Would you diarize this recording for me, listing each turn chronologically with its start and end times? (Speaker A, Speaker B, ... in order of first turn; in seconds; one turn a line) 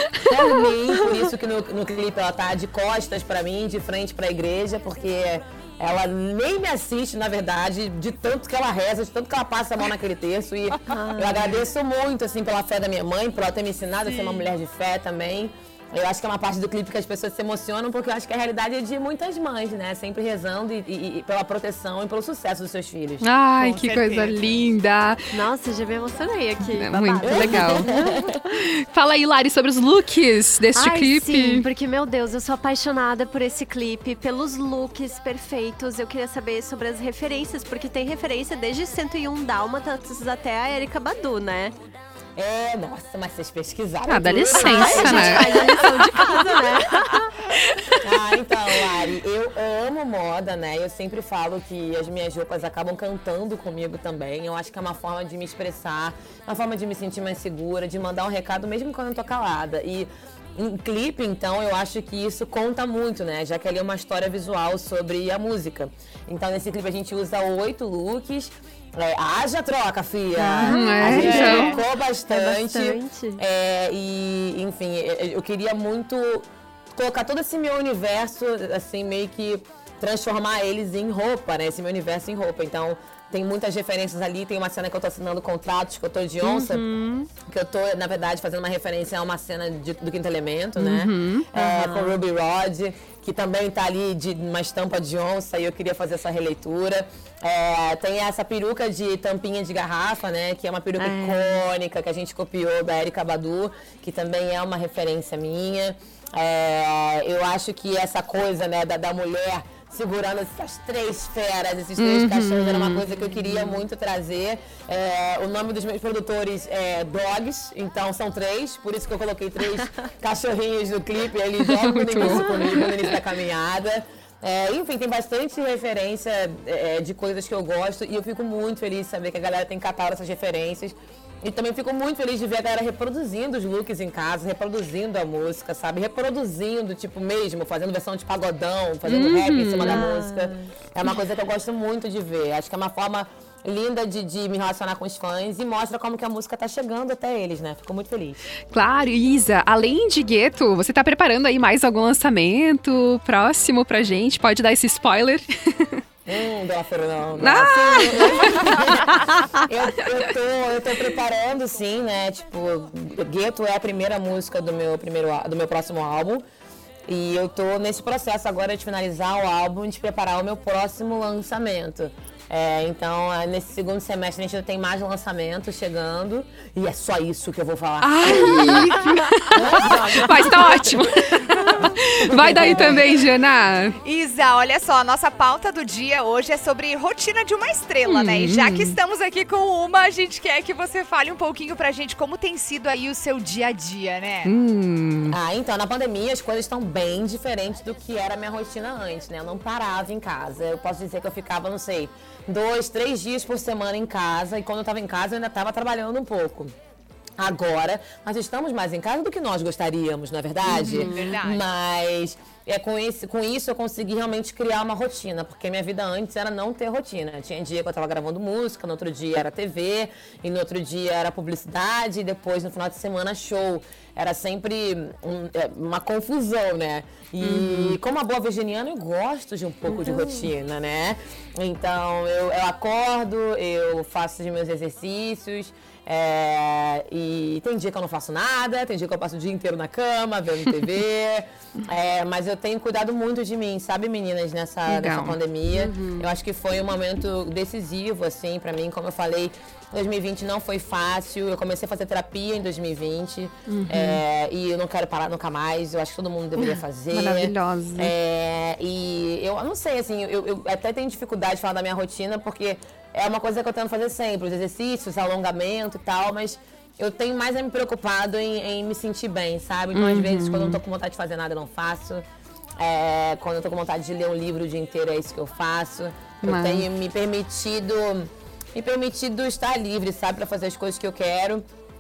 Speaker A: 0.2-23.2
Speaker B: 10.9-11.7
Speaker C: 23.2-25.2
Speaker D: 23.6-24.4
Speaker B: 25.3-28.2
Speaker C: 26.8-27.9
Speaker A: 27.2-28.4
Speaker C: 28.5-31.6
Speaker B: 30.8-41.7
Speaker A: 42.4-46.2
Speaker C: 44.0-46.7
Speaker B: 44.5-47.3
Speaker C: 47.5-48.0
Speaker A: 48.0-86.9
Speaker B: 70.3-73.4
Speaker C: 70.6-71.8
Speaker D: 71.4-71.8
Speaker C: 86.4-87.3
Speaker A: 87.4-148.4
Speaker C: 90.8-91.5
Speaker B: 91.5-92.2
Speaker B: 101.0-101.6
Speaker C: 112.0-113.0
Speaker C: 121.6-123.1
Speaker B: 122.2-122.7
Speaker C: 139.0-140.1
Speaker B: 139.8-141.1
Speaker C: 148.7-156.0
Speaker A: 156.3-166.4
Speaker C: 157.3-158.5
Speaker A: 167.1-178.9
Speaker C: 178.0-183.9
Speaker B: 178.3-179.0
Speaker A: 179.6-180.3
Speaker B: 179.6-180.8
Speaker A: 182.3-183.0
Speaker D: 184.0-194.5
Speaker C: 188.1-188.9
Speaker C: 194.4-195.3
Speaker A: 195.3-206.7
Speaker A: 207.4-272.2
Speaker D: 210.6-211.7
Speaker C: 210.7-211.1
Speaker C: 227.4-228.0
Speaker B: 229.9-230.5
Speaker C: 244.8-245.4
Speaker B: 245.7-246.3
Speaker C: 253.7-254.2
Speaker C: 257.1-258.1
Speaker C: 269.9-270.8
Speaker A: 272.8-281.6
Speaker C: 276.4-276.9